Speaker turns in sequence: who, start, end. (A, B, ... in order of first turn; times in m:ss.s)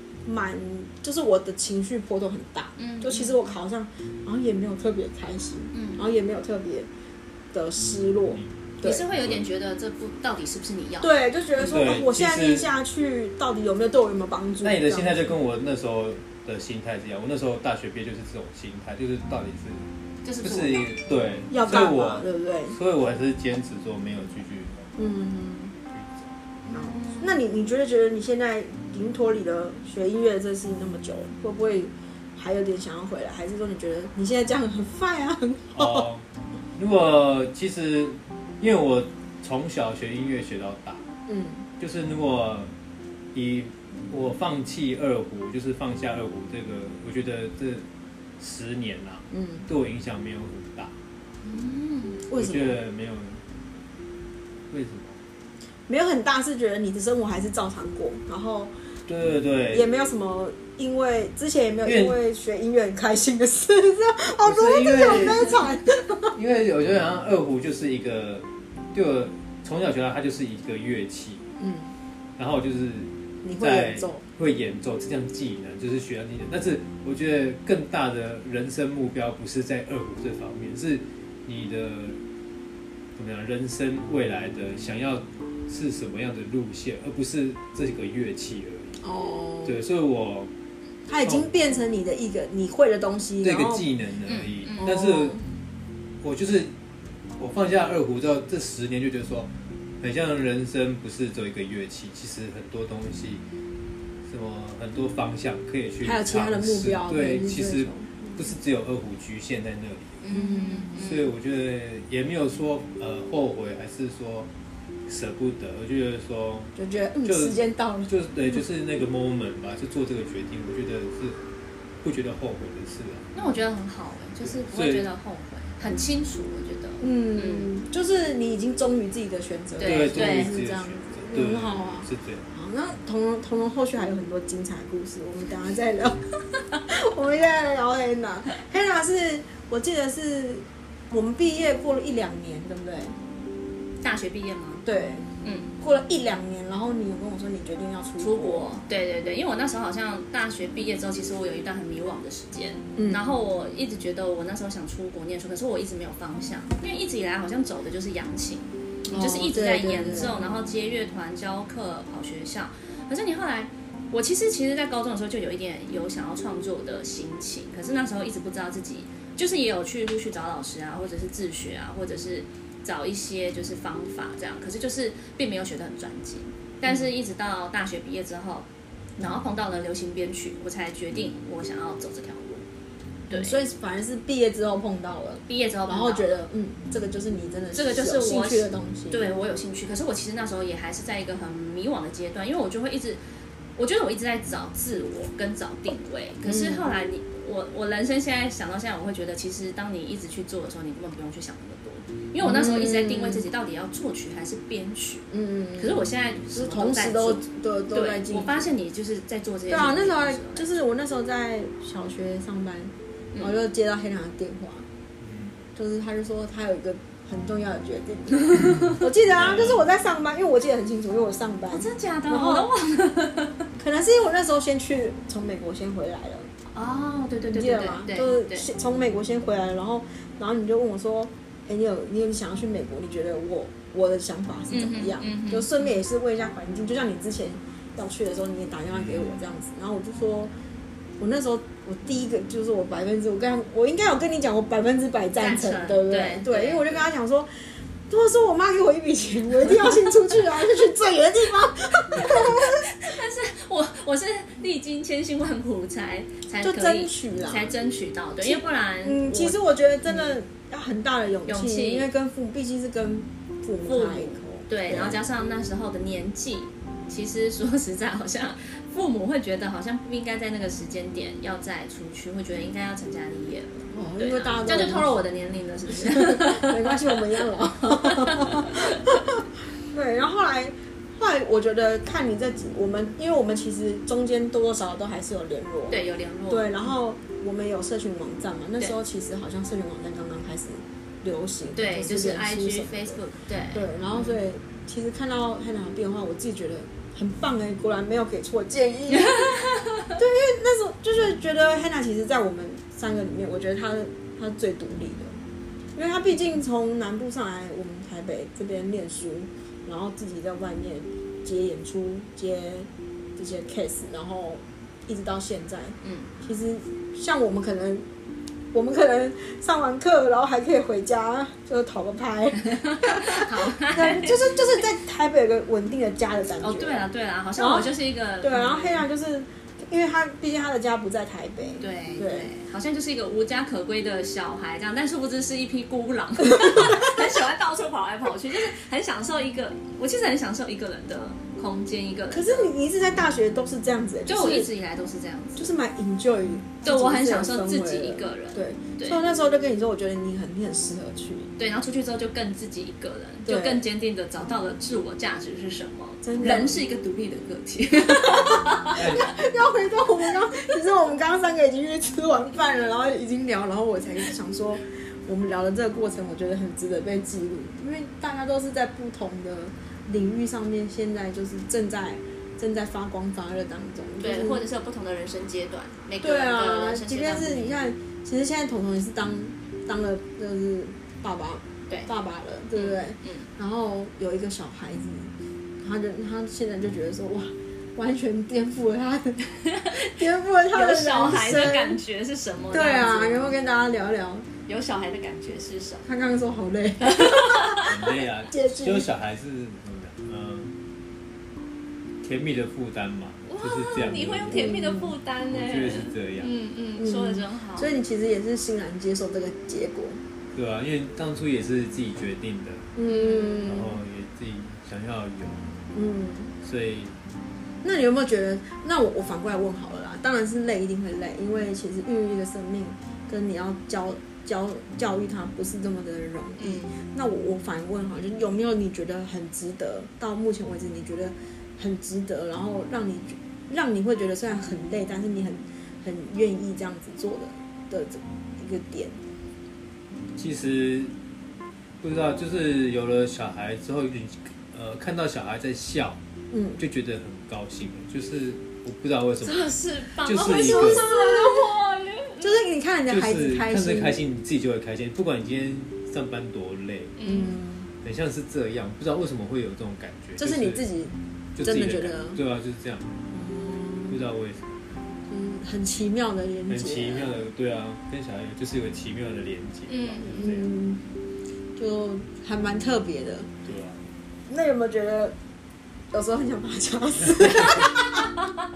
0:00.2-0:06.9 A
0:02.8-0:03.4 B
0:05.7-0:06.0 B
0:07.5-0:09.0 A
0:08.8-0:11.1 B
0:11.0-0:15.4 A
0:11.6-0:12.7 C
0:14.6-0:19.9 C
0:20.2-0:20.8 B
0:20.4-0:24.9 C
0:21.5-0:22.8 A
0:25.0-0:25.7 A
0:25.9-0:26.3 C
0:26.7-0:27.4 B
0:26.7-0:36.1 A
0:35.7-0:36.2 C
0:36.8-0:41.1 C
0:41.3-0:41.6 A
0:41.8-0:42.7 C
0:43.3-0:47.8 C
0:48.4-0:50.9 C
0:49.3-0:49.7 A
0:51.4-0:52.2 B
0:52.3-0:52.8 A
0:52.3-0:53.4 C
0:54.7-0:55.2 C
0:55.9-0:58.7 A
0:59.1-0:59.9 C
0:59.7-1:06.3 A
1:01.8-1:02.2 C
1:04.4-1:05.6 C
1:06.3-1:11.4 C
1:11.6-1:11.9 A
1:12.4-1:22.2 C
1:13.4-1:14.2 A
1:23.1-1:29.0 C
1:29.0-1:29.8 A
1:29.6-1:30.5 C
1:31.1-1:33.8 A
1:31.1-1:31.5 C
1:33.4-1:35.4 C
1:34.2-1:34.9 B
1:34.8-1:35.4 A
1:36.2-1:36.7 C
1:37.4-1:43.4 C
1:44.2-1:50.2 C
1:46.0-1:48.4 A
1:50.2-1:51.3 B
1:50.3-1:50.9 A
1:51.0-1:54.5 C
1:55.1-2:01.4 C
1:56.7-1:58.1 A
2:02.0-2:03.3 C
2:03.3-2:07.7 B
2:04.4-2:05.1 C
2:07.0-2:23.2 A
2:09.8-2:10.5 B
2:09.8-2:12.5 C
2:24.0-2:24.8 B
2:24.8-2:28.8 A
2:25.4-2:25.7 B
2:28.2-2:58.7 B
2:33.0-2:33.2 A
2:39.0-2:40.4 A
2:59.2-3:02.6 B
3:03.3-3:03.6 B
3:03.3-3:09.3 A
3:05.5-3:06.4 B
3:07.7-3:13.2 B
3:13.8-3:30.7 B
3:16.4-3:16.8 A
3:22.4-3:23.4 A
3:25.3-3:28.7 A
3:29.7-3:34.8 A
3:35.2-3:35.6 C
3:35.8-3:42.7 A
3:39.3-3:39.8 C
3:41.7-3:43.6 B
3:43.8-3:46.5 A
3:46.7-3:48.7 B
3:47.5-4:00.5 A
3:54.7-3:55.9 B
3:58.9-3:59.4 C
4:01.2-4:13.0 A
4:05.4-4:07.1 B
4:12.2-4:20.4 B
4:16.6-4:17.7 A
4:18.4-4:25.2 A
4:21.5-4:22.1 B
4:23.8-4:39.0 B
4:33.9-4:35.2 A
4:35.9-4:53.2 A
4:45.9-4:46.9 B
4:51.8-4:54.4 B
4:53.7-5:05.4 A
4:59.1-5:00.1 B
5:05.9-5:18.0 A
5:16.0-5:16.3 B
5:18.7-5:27.0 A
5:22.6-5:24.8 B
5:26.6-5:29.0 B
5:27.6-5:32.5 A
5:31.8-5:42.7 B
5:42.3-5:44.7 A
5:44.3-5:45.7 B
5:45.6-5:51.5 A
5:46.8-5:49.2 B
5:51.6-5:59.0 B
5:53.4-5:53.8 A
5:56.2-5:56.8 A
5:58.2-6:14.6 A
5:58.9-5:59.3 C
6:14.2-6:17.8 B
6:16.2-6:32.0 A
6:22.7-6:23.5 B
6:29.6-6:30.2 B
6:30.7-6:33.5 B
6:31.2-6:31.8 C
6:32.7-6:34.5 A
6:34.6-6:36.1 B
6:36.0-6:37.9 A
6:37.0-6:37.9 B
6:37.8-6:40.7 C
6:38.5-6:39.1 A
6:42.2-6:44.8 C
6:43.5-6:47.9 B
6:44.5-6:45.1 A
6:45.4-6:46.5 C
6:47.0-6:50.2 A
6:50.5-6:52.9 C
6:53.0-6:54.0 A
6:53.0-6:53.8 B
6:53.6-6:55.8 C
6:55.9-6:56.5 A
6:56.6-6:57.1 C
6:57.8-7:19.2 A
7:06.6-7:06.9 B
7:20.4-7:21.1 C
7:22.0-7:26.2 C
7:26.5-7:26.8 A
7:26.8-7:31.0 C
7:29.4-7:32.7 B
7:30.3-7:31.7 A
7:32.4-7:34.2 A
7:33.1-7:37.2 C
7:37.2-7:37.6 B
7:37.2-7:37.9 A
7:38.0-7:40.8 C
7:40.4-7:42.4 A
7:41.6-7:43.1 C
7:43.3-7:44.2 A
7:44.1-7:44.7 C
7:45.3-7:47.5 A
7:46.7-7:50.7 C
7:49.9-7:50.4 B
7:50.2-7:51.0 A
7:51.8-7:53.5 A
7:53.6-7:54.0 C
7:54.5-7:55.3 A
7:56.1-7:58.4 A